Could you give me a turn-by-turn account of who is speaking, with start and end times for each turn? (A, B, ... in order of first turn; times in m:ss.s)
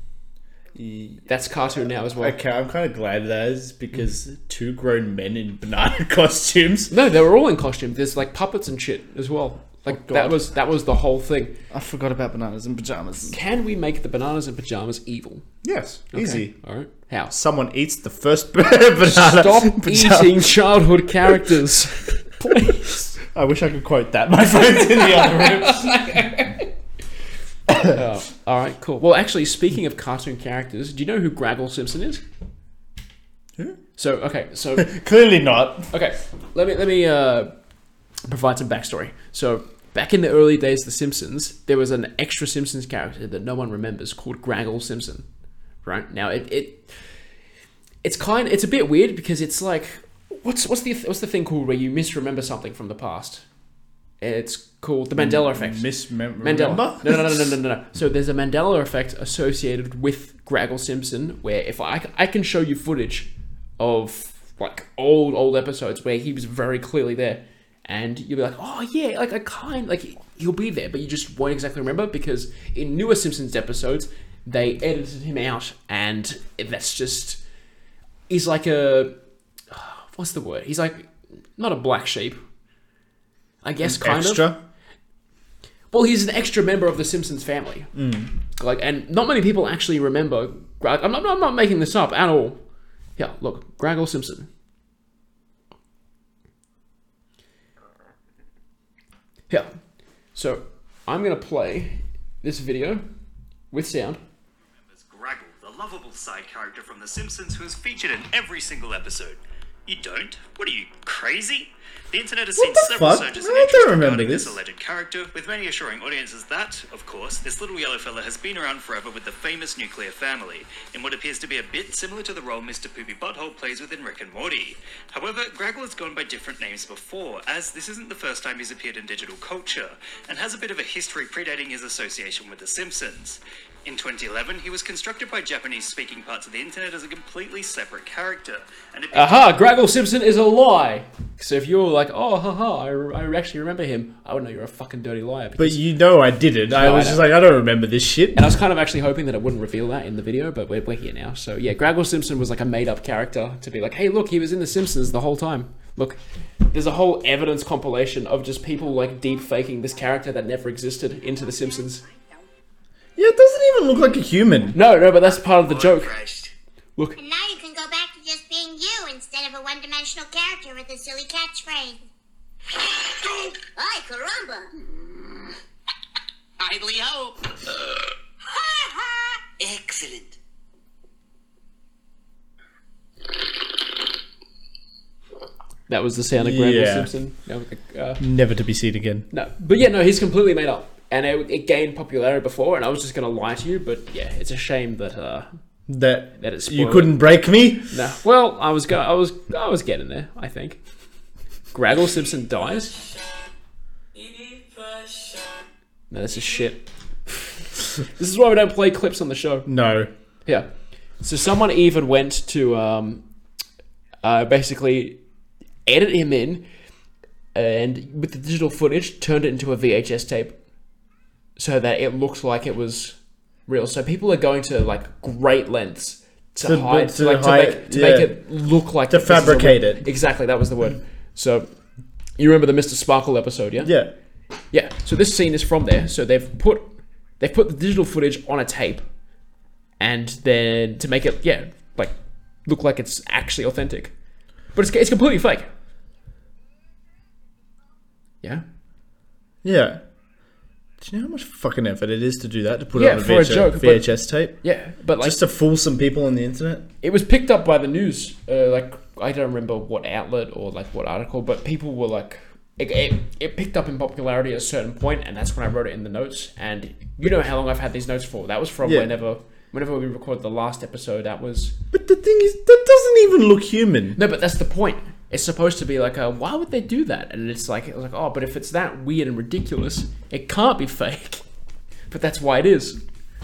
0:00.8-0:01.2 A
0:01.3-0:02.4 B
0:02.2-0:06.9 A
0:06.9-0:11.6 B
0:09.9-0:10.4 A
0:11.7-0:13.3 A
0:13.3-0:15.5 B
0:15.6-0:16.6 A
0:16.1-0:17.4 B
0:17.3-0:20.6 A
0:19.1-0:23.1 B
0:23.2-0:26.1 A
0:25.0-0:26.7 B
0:27.7-0:28.0 A
0:27.8-0:32.2 B
0:34.0-0:34.9 B
0:34.8-0:35.9 A
0:35.9-0:37.5 B
0:38.2-0:45.2 B
0:45.8-0:46.9 B
0:48.0-0:53.4 B
0:54.2-0:55.9 B
0:55.2-0:57.4 A
0:56.4-1:17.4 B
1:18.3-1:19.2 B
1:19.7-1:22.4 B
1:23.6-1:24.5 B
1:23.8-1:24.6 A
1:25.9-1:27.9 B
1:27.9-1:28.3 A
1:28.6-1:32.6 B
1:33.2-1:34.5 B
1:40.3-1:43.0 B
1:43.7-1:44.2 B
1:44.9-2:19.5 C
1:52.6-1:54.6 A
2:19.1-2:25.8 B
2:25.6-2:28.5 A
2:26.7-2:27.3 B
2:28.3-2:42.0 B
2:43.2-2:44.8 A
2:44.7-2:46.2 B
2:47.2-2:52.0 D
2:52.7-2:55.6 D
2:56.6-3:00.4 D
3:05.9-3:08.2 B
3:06.4-3:07.1 A
3:08.2-3:09.3 A
3:09.3-3:15.5 B
3:15.9-3:17.9 A
3:16.4-3:17.1 B
3:17.9-3:20.8 B
3:21.7-3:23.0 B
3:24.4-3:25.2 D
3:26.1-3:29.7 B
3:29.7-3:30.1 A
3:31.2-3:33.2 B
3:34.2-3:35.2 B
3:35.9-3:36.7 B
3:37.5-3:40.6 B
3:41.6-3:51.7 B
3:46.6-3:48.4 A
3:49.1-3:50.0 A
3:52.4-3:53.9 B
3:53.8-3:54.1 A
3:54.7-3:59.1 B
4:00.0-4:02.1 B
4:02.6-4:04.1 B
4:04.7-4:05.7 B
4:09.6-4:10.0 A
4:11.0-4:14.6 A
4:12.9-4:14.1 B
4:14.6-4:15.4 B
4:15.2-4:16.9 A
4:17.0-4:31.8 B
4:28.8-4:29.1 A
4:31.9-4:34.2 A
4:34.2-4:41.4 B
4:42.1-4:43.0 B